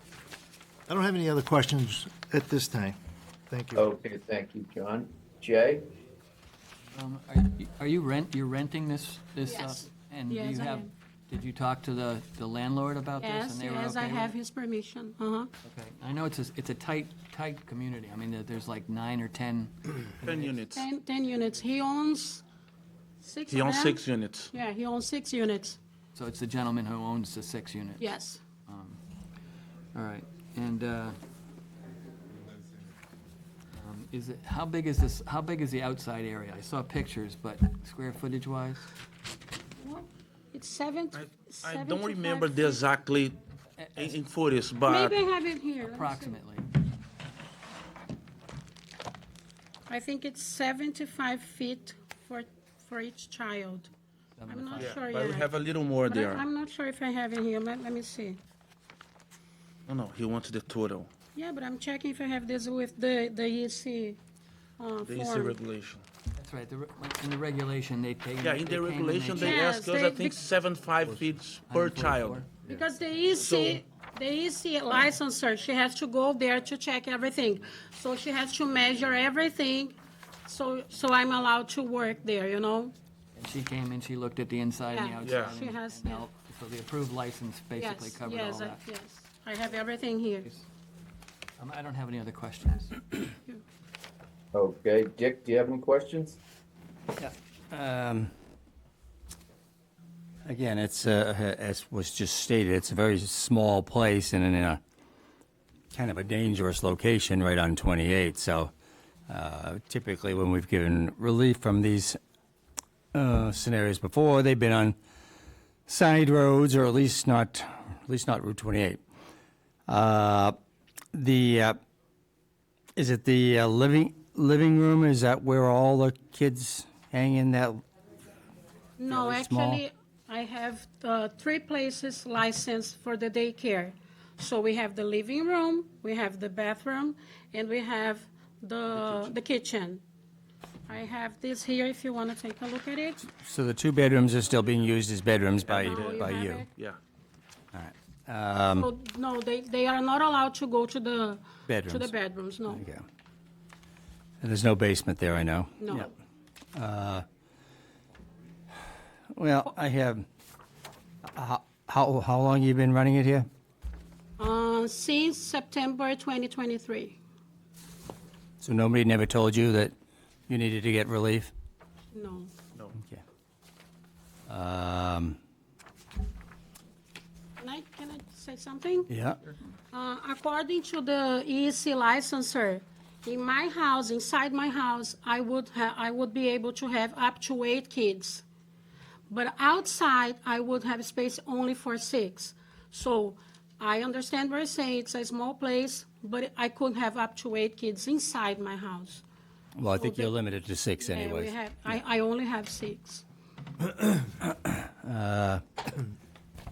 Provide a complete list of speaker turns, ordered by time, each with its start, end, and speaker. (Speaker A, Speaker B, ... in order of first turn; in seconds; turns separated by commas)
Speaker A: 0.9-3.0, Speaker A: 3.5-3.9, Speaker B: 3.8-5.9, Speaker C: 6.9-14.3, Speaker D: 9.5-10.9, Speaker D: 13.2-15.5, Speaker C: 15.6-20.5, Speaker E: 20.2-20.9, Speaker D: 20.7-22.4, Speaker D: 23.2-25.8, Speaker E: 23.5-24.5, Speaker C: 26.1-28.1, Speaker D: 28.0-28.4, Speaker C: 28.7-29.0, Speaker C: 29.9-31.2, Speaker C: 33.8-38.9, Speaker D: 39.8-42.9, Speaker E: 41.2-43.4, Speaker C: 43.8-44.2, Speaker E: 44.0-45.2, Speaker D: 44.8-46.4, Speaker C: 45.8-46.7, Speaker D: 49.9-53.9, Speaker C: 54.4-55.0, Speaker D: 54.5-55.5, Speaker E: 54.8-56.5, Speaker D: 56.1-58.4, Speaker E: 59.9-61.1, Speaker D: 61.4-64.2, Speaker D: 64.8-65.6, Speaker E: 65.0-66.0, Speaker C: 66.4-69.7, Speaker E: 68.4-72.4, Speaker D: 69.3-70.4, Speaker C: 71.7-72.5, Speaker D: 72.7-82.9, Speaker E: 73.4-73.8, Speaker C: 83.4-88.8, Speaker D: 84.9-86.3, Speaker E: 85.2-85.5, Speaker D: 87.8-90.5, Speaker C: 91.6-93.1, Speaker B: 94.5-96.4, Speaker F: 97.2-98.3, Speaker F: 100.5-104.8, Speaker F: 105.9-108.7, Speaker F: 109.3-112.2, Speaker F: 113.1-115.0, Speaker F: 115.9-119.0, Speaker F: 119.9-120.6, Speaker F: 121.1-121.8, Speaker F: 123.0-127.8, Speaker D: 129.0-140.0, Speaker F: 129.1-129.8, Speaker E: 139.0-139.2, Speaker D: 140.9-143.2, Speaker F: 143.2-146.7, Speaker E: 145.7-146.3, Speaker D: 145.8-146.7, Speaker F: 147.7-148.9, Speaker D: 148.8-152.8, Speaker F: 151.7-152.1, Speaker F: 152.7-153.0, Speaker F: 154.4-156.1, Speaker D: 155.8-156.1, Speaker F: 156.8-157.2, Speaker F: 159.3-160.3, Speaker F: 161.3-163.5, Speaker D: 164.4-167.2, Speaker F: 168.6-169.9, Speaker F: 170.5-171.5, Speaker D: 172.1-172.5, Speaker F: 174.5-175.4, Speaker D: 177.6-179.1, Speaker F: 179.1-179.4, Speaker D: 179.9-188.4, Speaker D: 189.3-199.2, Speaker F: 199.8-202.0, Speaker D: 199.9-200.3, Speaker D: 201.0-203.2, Speaker F: 204.3-205.6